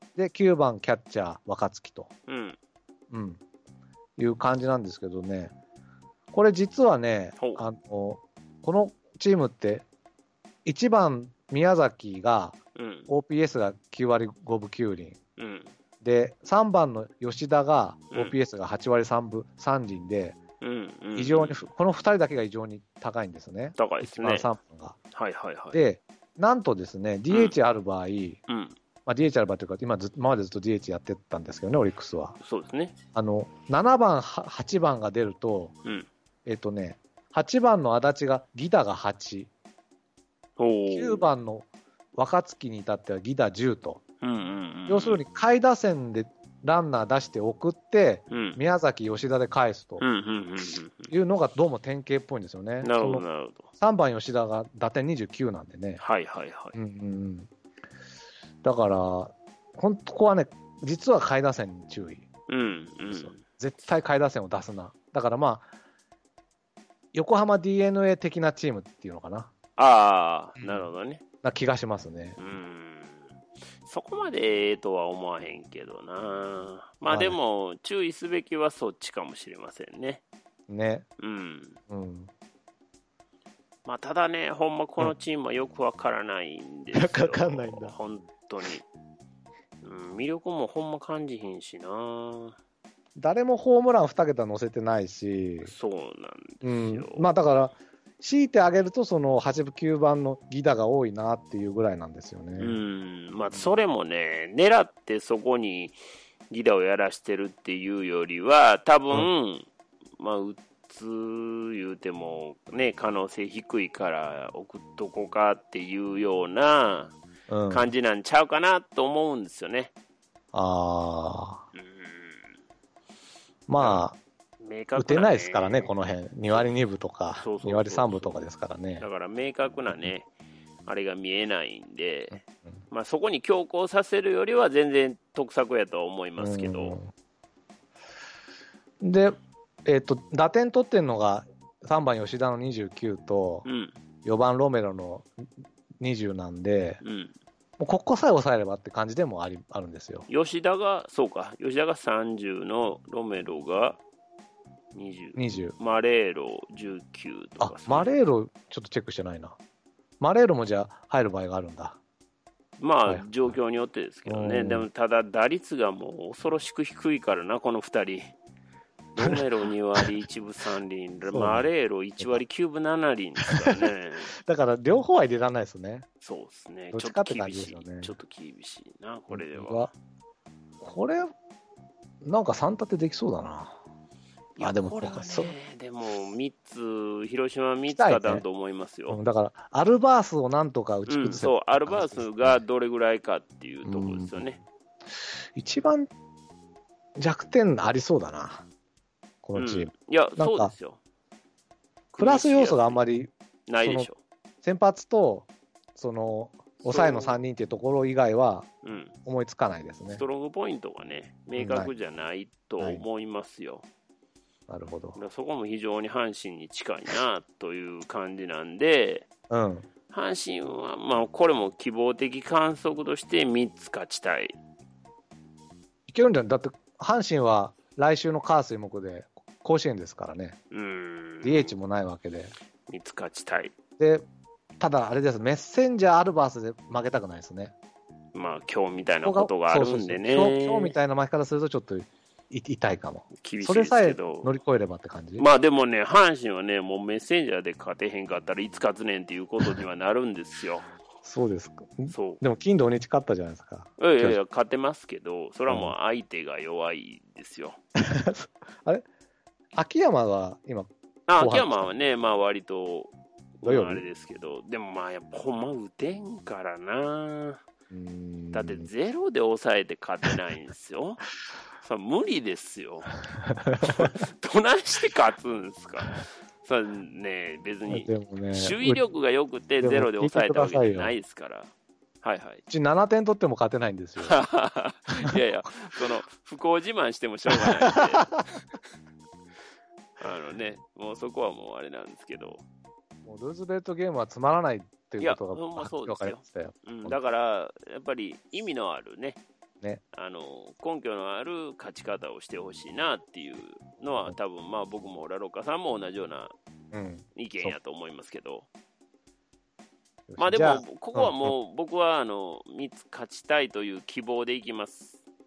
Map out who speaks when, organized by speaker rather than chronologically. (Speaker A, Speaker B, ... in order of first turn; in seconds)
Speaker A: 0.2-2.1, 3.1-3.4, 4.2-5.5, 6.3-9.8, 10.7-12.6, 13.1-15.2, 16.0-20.4, 21.2-25.0, 25.7-28.4, 29.1-32.4, 33.1-35.8, 36.5-39.5, 40.9-44.0, 44.9-50.0, 51.1-53.2, 53.8-56.0, 56.8-57.5, 58.6-62.3, 63.1-65.7, 67.1-69.5, 70.6-70.9, 71.4-72.4, 77.1-77.4, 80.7-81.1, 81.9-82.3, 87.0-88.0, 93.2-95.7, 96.6-102.8, 117.5-117.9, 120.5-121.6, 123.7-124.2, 125.0-129.1, 136.4-137.1, 139.0-143.7, 144.2-145.3, 146.0-147.0, 147.8-150.3, 155.3-155.8, 157.6-159.6, 160.2-162.0, 163.1-163.5, 164.3-164.9, 169.2-169.4, 171.3-171.7, 173.4-173.8, 174.4-176.1, 176.9-178.1, 179.3-179.9, 180.8-181.3, 182.2-183.8, 184.6-185.5, 187.9-188.4, 189.1-192.6, 193.8-194.4, 195.6-196.1, 197.2-198.7, 199.4-200.7, 202.2-203.3, 204.6-208.7, 209.2-210.2, 211.6-211.9, 214.7-215.2, 219.5-219.9, 226.1-230.6, 231.4-232.5, 234.0-234.2, 234.8-237.7, 239.2-245.5, 251.2-254.4, 255.7-255.9, 258.0-259.1, 259.8-261.9, 263.6-264.0, 267.9-268.9, 273.4-274.1, 277.9-279.0, 279.8-281.1, 282.7-284.4, 293.2-297.2, 306.9-307.8, 310.3-311.5
Speaker B: 2.3-2.6, 7.4-7.7, 12.8-13.1, 15.4-15.7, 20.6-21.7, 23.8-24.5, 25.1-25.8, 27.3-27.6, 28.5-28.8, 32.4-33.0, 40.6-41.3, 44.2-45.2, 48.3-48.6, 50.0-51.1, 52.8-53.7, 56.0-56.8, 62.5-63.4, 69.8-71.2, 72.4-73.3, 73.8-80.2, 81.2-81.8, 83.8-88.8, 89.8-92.6, 95.6-97.3, 102.6-106.0, 106.5-117.2, 117.7-119.9, 121.7-122.5, 123.8-124.0, 124.6-125.9, 127.4-128.4, 129.0-130.3, 130.9-137.0, 143.7-144.0, 147.0-147.3, 150.3-154.0, 154.9-158.1, 162.8-168.3, 169.2-174.3, 176.2-179.9, 184.6-189.2, 191.1-194.6, 199.6-201.0, 202.1-203.0, 203.7-204.2, 206.8-207.4, 208.8-209.2, 210.1-213.9, 215.2-219.3, 220.1-224.5, 230.7-231.8, 232.9-233.7, 238.3-240.9, 243.4-244.5, 245.4-250.9, 252.1-252.4, 254.0-257.8, 261.3-267.6, 268.5-271.2, 271.8-273.2, 273.8-281.7, 282.2-282.6, 284.2-288.7, 290.2-292.6, 295.2-299.4, 300.1-306.5, 307.4-308.7, 310.4-315.2